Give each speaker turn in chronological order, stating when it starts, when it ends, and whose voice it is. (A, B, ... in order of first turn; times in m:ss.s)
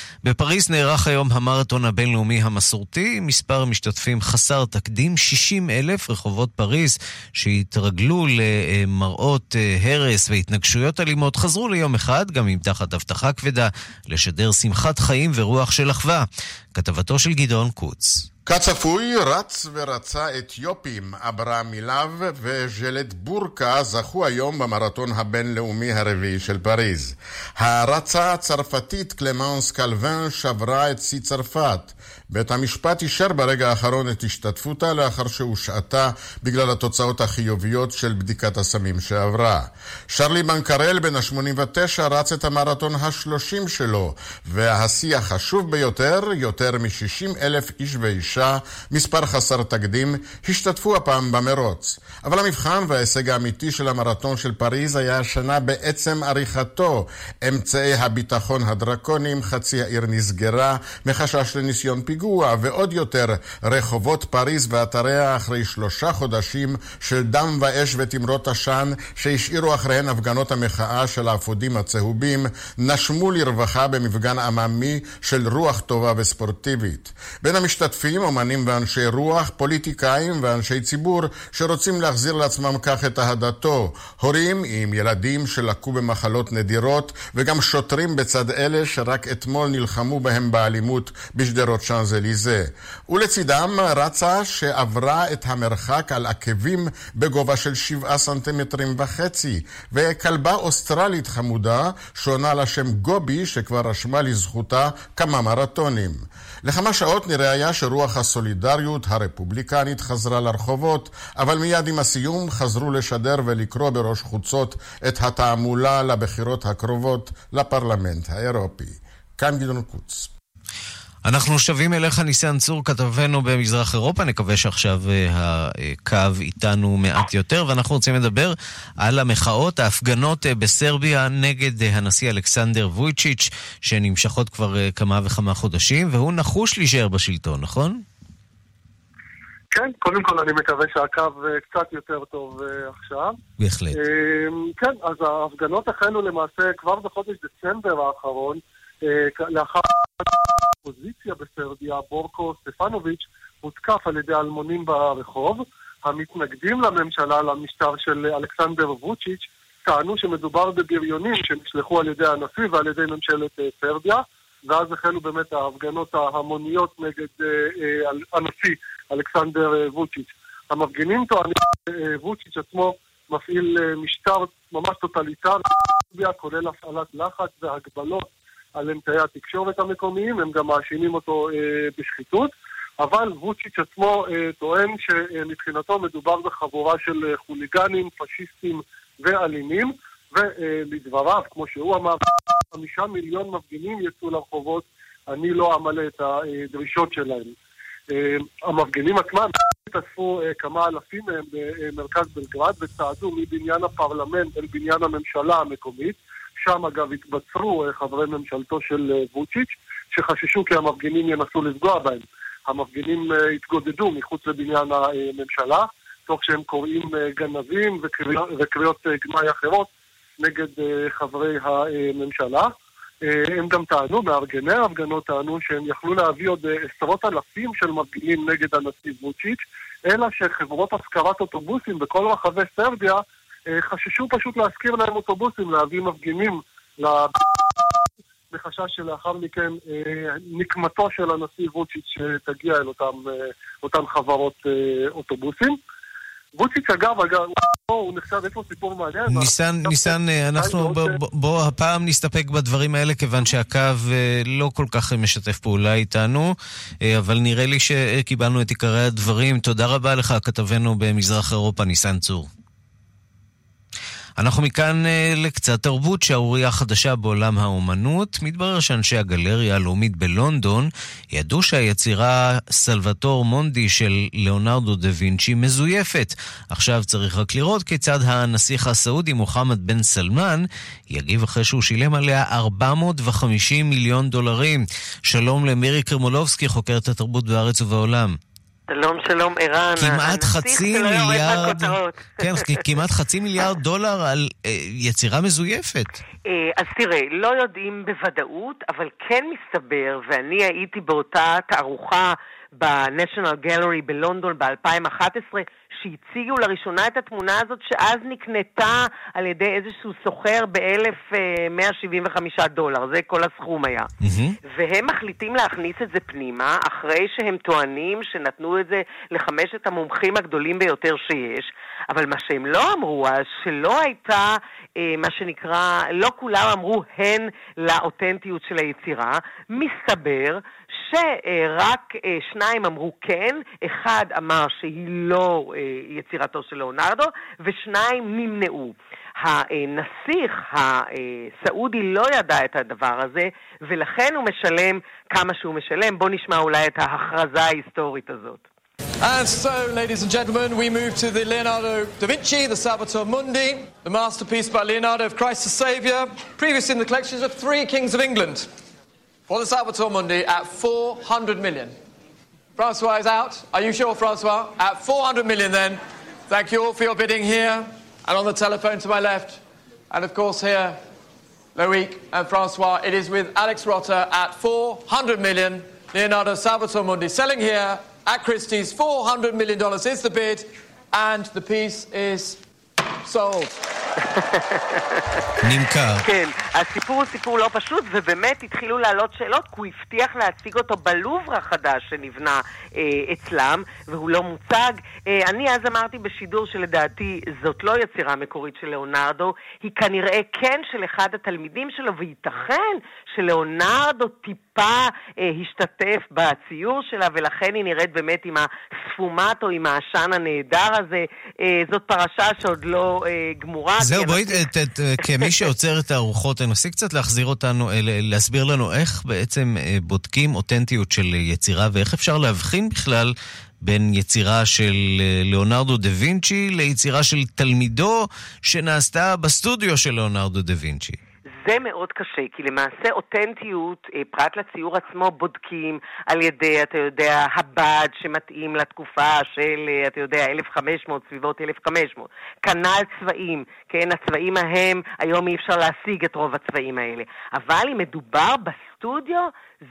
0:00.2-0:18.3 A
0:18.5-2:00.3 B
2:01.2-2:18.0 A
2:19.7-2:23.4 C
2:23.6-2:24.0 A
2:24.0-2:30.3 C
2:30.8-3:17.6 C
3:18.1-3:42.7 C
3:43.2-3:57.4 C
3:58.5-4:05.8 C
4:06.6-4:11.2 C
4:09.3-4:22.5 A
4:24.4-4:48.4 A
4:48.9-4:52.2 D
4:50.0-4:56.2 A
4:56.5-5:14.1 D
5:14.2-5:14.6 A
5:14.7-5:48.6 D
5:49.2-5:58.7 E
5:59.5-6:02.0 E
6:02.8-6:11.0 E
6:11.8-6:22.6 E
6:23.3-6:23.7 E
6:25.6-6:26.2 A
6:26.3-6:54.6 D
6:54.0-7:11.2 A
7:11.6-7:29.5 D